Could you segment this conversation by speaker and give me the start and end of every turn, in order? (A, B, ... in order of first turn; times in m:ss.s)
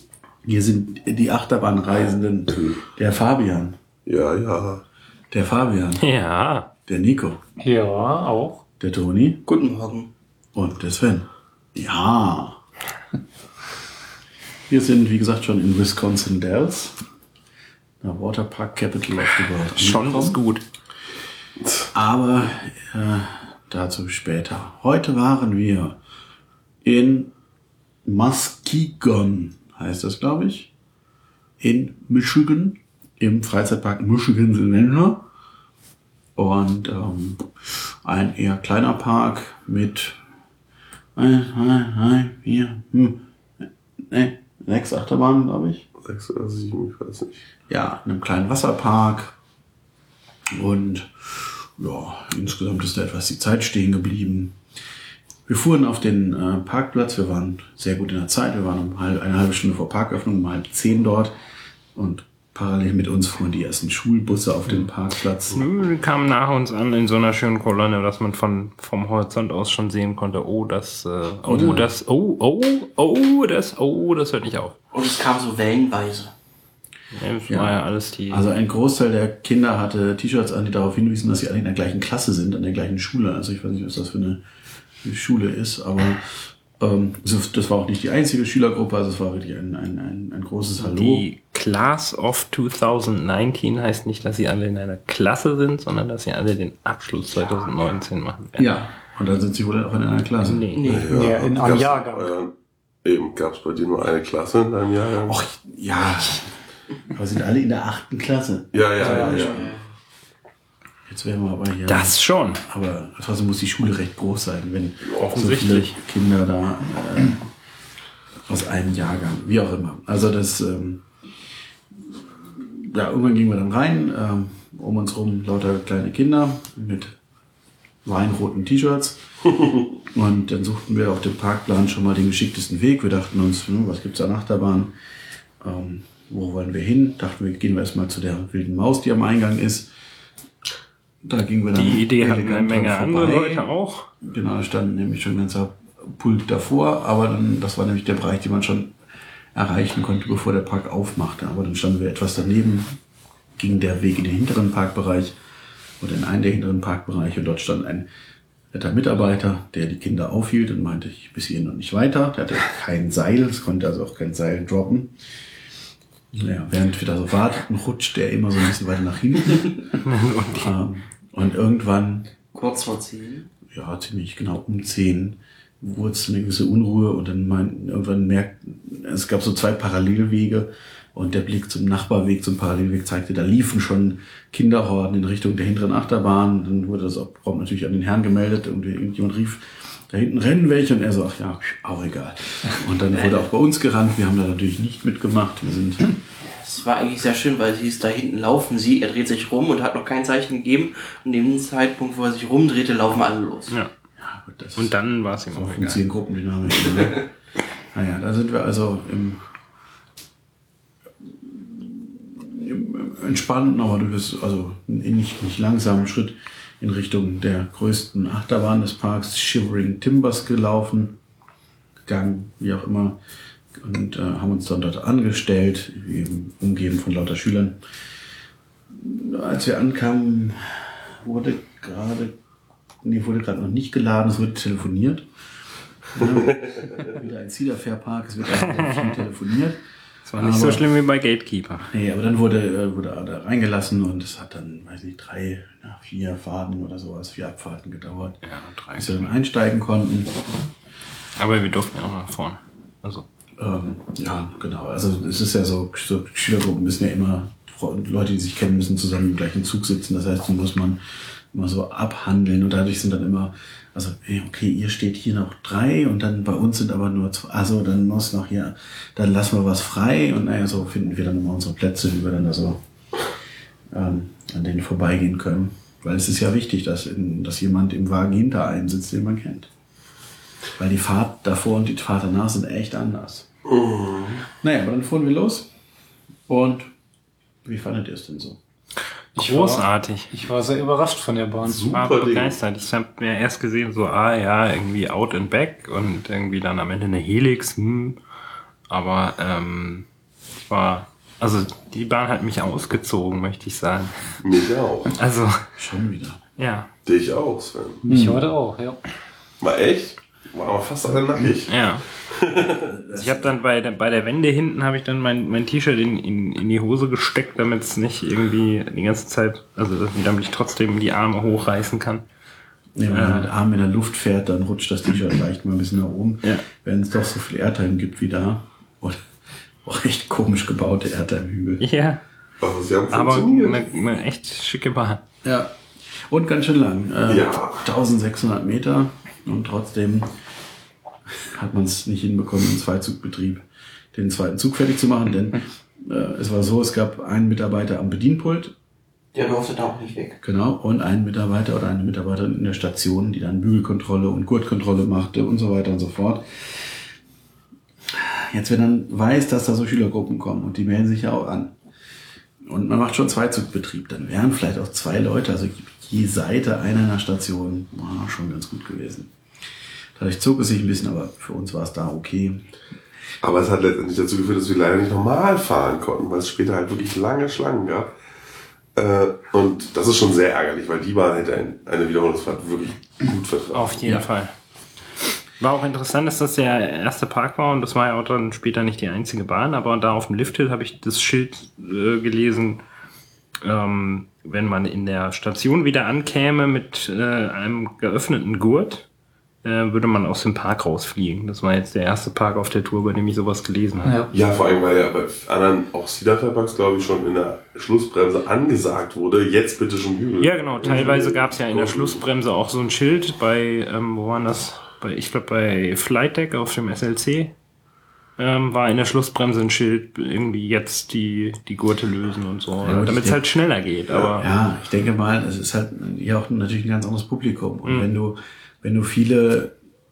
0:00.4-0:03.8 A
0:04.0-0:04.8 B
0:05.3-0:06.0 A
0:06.0-0:06.7 C
0:06.8-0:07.4 A
0:07.6-0:08.6 D
0:08.8-0:09.5 A
0:09.5-0:10.1 E
0:10.5-0:12.6 A
0:14.7-0:17.0 A
0:18.0-0:20.4 A
0:19.4-0:20.6 C
0:21.6-0:21.9 B
0:21.9-0:26.0 A
0:26.8-0:27.3 A
0:28.0-0:30.7 A
0:31.6-0:35.2 A
0:36.4-0:37.5 A
0:38.0-0:40.2 A
0:41.2-0:45.9 A
0:46.0-0:47.4 B
0:47.7-0:49.3 A
0:50.5-0:54.6 A
0:55.5-1:01.3 A
1:01.9-1:05.7 A
1:05.4-1:14.8 C
1:11.4-1:11.9 A
1:14.9-1:16.3 E
1:17.1-1:18.4 C
1:17.5-1:24.4 A
1:25.0-1:31.3 A
1:30.8-1:38.7 C
1:38.6-1:40.7 A
1:40.4-1:41.0 C
1:40.8-1:41.2 E
1:40.8-1:42.5 B
1:41.1-1:42.3 D
1:43.0-1:45.4 B
1:45.3-1:46.5 A
1:47.1-1:49.8 A
1:48.7-1:49.7 B
1:49.0-1:49.3 D
1:49.1-1:49.8 E
1:51.1-1:57.4 A
1:51.8-1:52.6 C
1:55.2-1:56.0 C
1:58.5-2:01.0 A
2:02.6-2:07.2 A
2:08.0-2:09.2 A
2:10.1-2:14.9 A
2:15.6-2:19.9 A
2:21.2-2:23.7 A
2:21.7-2:24.1 C
2:24.2-2:28.9 A
2:29.5-2:33.0 A
2:33.6-2:35.4 A
2:36.0-2:38.1 A
2:38.7-2:45.1 A
2:46.3-2:49.8 A
2:50.0-2:50.7 C
2:50.5-2:52.4 A
2:52.5-2:53.5 E
2:53.7-3:16.1 A
3:13.1-3:13.4 E
3:16.5-3:23.7 E
3:24.2-3:27.3 A
3:24.8-3:26.0 C
3:27.9-3:29.4 A
3:31.4-3:41.2 A
3:42.1-3:43.2 A
3:43.8-3:47.8 A
3:48.9-3:52.3 A
3:53.0-3:55.2 A
3:56.1-3:59.8 A
3:56.5-3:57.0 B
3:58.8-3:59.2 C
4:00.3-4:01.9 C
4:00.3-4:00.8 A
4:01.8-4:08.4 A
4:08.4-4:09.3 C
4:08.9-4:10.4 A
4:11.4-4:13.3 C
4:13.6-4:21.0 A
4:21.5-4:32.8 A
4:33.9-4:39.7 A
4:40.8-4:43.5 A
4:43.6-4:44.4 B
4:44.6-4:45.7 A
4:46.5-4:46.9 A
4:47.6-4:48.6 A
4:49.3-4:50.3 C
4:49.4-4:51.9 D
4:51.6-4:52.6 B
4:51.9-4:58.2 C
4:58.9-5:00.1 C
5:00.7-5:04.2 C
5:04.4-5:05.1 B
5:05.1-5:05.6 C
5:05.8-5:06.4 A
5:06.6-5:06.9 C
5:07.0-5:08.0 B
5:08.0-5:09.0 D
5:08.0-5:08.5 A
5:09.6-5:11.8 B
5:11.7-5:12.0 C
5:12.3-5:12.8 B
5:12.7-5:13.6 A
5:13.1-5:22.2 C
5:23.0-5:29.2 A
5:23.1-5:23.5 C
5:29.8-5:31.8 A
5:31.8-5:32.2 C
5:32.6-5:33.8 B
5:33.1-5:35.2 C
5:35.4-5:35.7 A
5:36.3-5:40.3 A
5:37.3-5:37.8 B
5:41.4-5:48.7 A
5:49.3-5:50.4 E
5:50.4-5:56.4 A
5:58.1-6:01.7 A
6:02.6-6:09.3 A
6:10.2-6:12.7 A
6:13.4-6:18.1 B
6:18.9-6:24.2 B
6:23.7-6:24.5 C
6:25.6-6:32.8 C
6:33.6-6:39.1 C
6:39.6-6:44.2 C
6:44.0-6:44.3 D
6:44.3-6:52.2 B
6:50.4-6:57.5 C
6:58.4-7:04.5 C
7:02.8-7:03.4 A
7:04.4-7:09.7 A